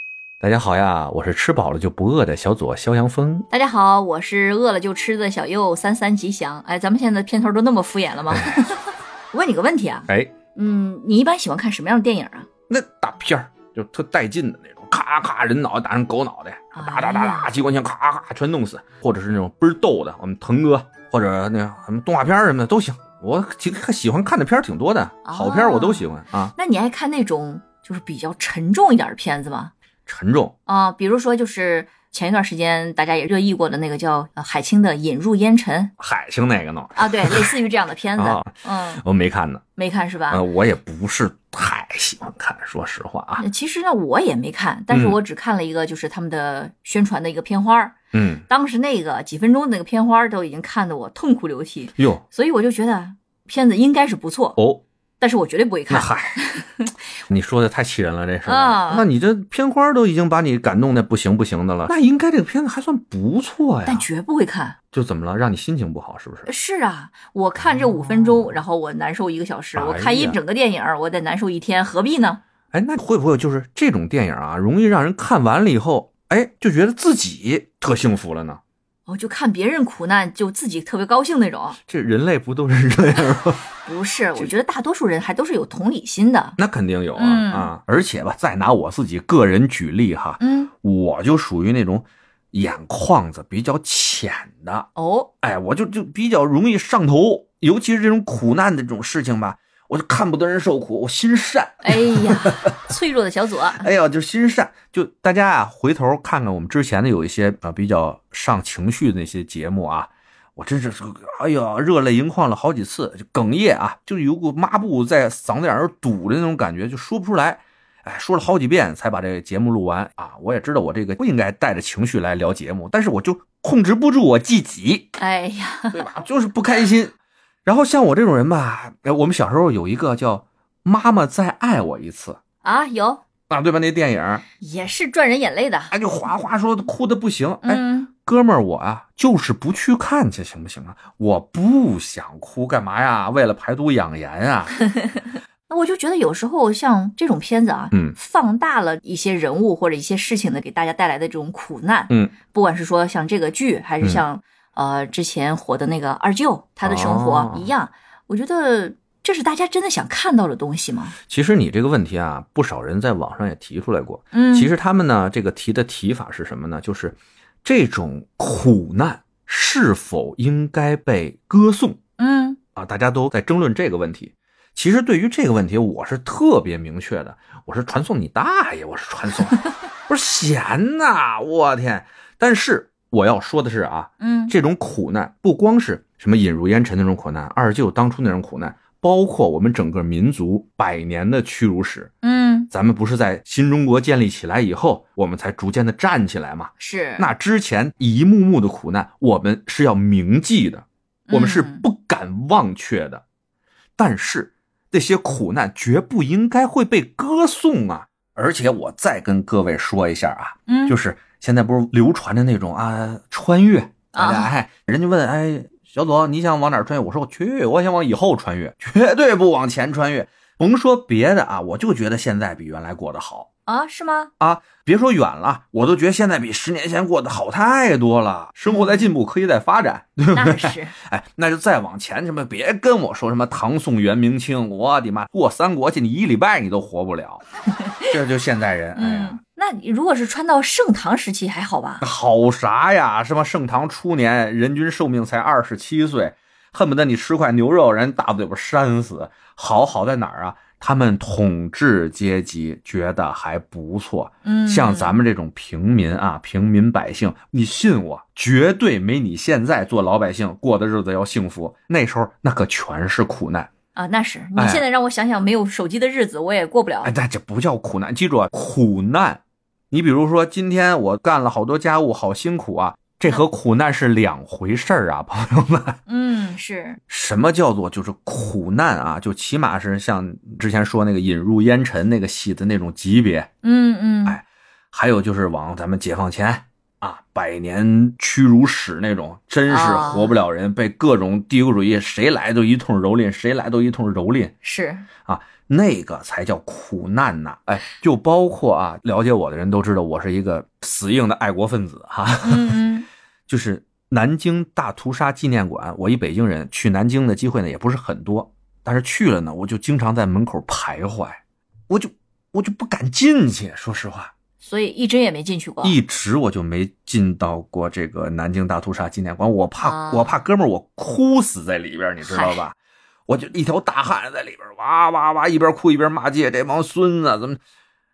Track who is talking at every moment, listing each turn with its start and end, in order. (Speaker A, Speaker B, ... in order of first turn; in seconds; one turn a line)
Speaker A: 0.4-3.5
Speaker B: 3.5-12.5
Speaker A: 8.3-8.7
Speaker A: 10.1-10.3
Speaker A: 12.7-26.5
Speaker B: 16.7-17.5
Speaker B: 25.2-29.7
Speaker A: 30.1-30.5
Speaker B: 30.6-35.9
Speaker A: 36.0-37.5
Speaker B: 36.9-39.0
Speaker A: 38.1-39.6
Speaker B: 39.8-40.4
Speaker A: 40.3-43.5
Speaker B: 43.4-48.0
Speaker A: 44.9-45.2
Speaker A: 48.1-48.5
Speaker B: 48.5-54.6
Speaker A: 52.0-52.2
Speaker A: 54.6-54.8
Speaker B: 55.2-57.0
Speaker A: 55.9-56.4
Speaker A: 57.3-64.1
Speaker B: 58.4-59.1
Speaker B: 63.8-64.8
Speaker A: 64.9-66.5
Speaker B: 66.5-72.4
Speaker A: 69.7-70.4
Speaker A: 72.7-78.6
Speaker B: 79.0-81.8
Speaker A: 81.8-83.7
Speaker B: 83.8-86.6
Speaker A: 86.6-94.9
Speaker B: 87.2-87.7
Speaker B: 90.4-90.7
Speaker B: 95.0-95.3
Speaker A: 95.4-102.8
Speaker B: 101.8-103.9
Speaker A: 103.8-125.2
Speaker B: 125.2-126.1
Speaker A: 125.9-127.1
Speaker A: 127.7-132.4
Speaker B: 132.6-133.2
Speaker A: 133.5-134.4
Speaker B: 134.6-135.9
Speaker A: 135.9-144.8
Speaker B: 137.6-138.1
Speaker B: 145.0-161.2
Speaker A: 152.1-152.3
Speaker A: 156.8-157.7
Speaker A: 161.3-172.0
Speaker B: 164.3-164.7
Speaker B: 172.2-172.6
Speaker A: 172.8-192.1
Speaker B: 184.2-184.5
Speaker B: 192.2-192.7
Speaker A: 192.7-203.2
Speaker B: 196.8-197.3
Speaker B: 201.3-201.9
Speaker A: 204.0-223.5
Speaker B: 210.7-211.0
Speaker B: 214.1-214.5
Speaker B: 223.7-224.3
Speaker A: 224.4-237.4
Speaker B: 228.7-229.1
Speaker B: 230.3-230.9
Speaker A: 238.0-239.4
Speaker B: 238.9-242.0
Speaker A: 242.0-263.7
Speaker B: 254.4-255.2
Speaker B: 263.9-267.1
Speaker A: 264.6-264.8
Speaker A: 267.0-276.0
Speaker B: 276.1-277.0
Speaker A: 277.1-283.5
Speaker B: 283.6-284.4
Speaker A: 284.2-294.5
Speaker B: 289.7-290.3
Speaker B: 294.6-295.1
Speaker A: 295.2-302.8
Speaker B: 302.4-303.1
Speaker A: 303.5-314.3
Speaker B: 314.6-316.0
Speaker A: 315.8-322.8
Speaker B: 319.8-320.3
Speaker B: 322.2-322.6
Speaker A: 323.3-327.6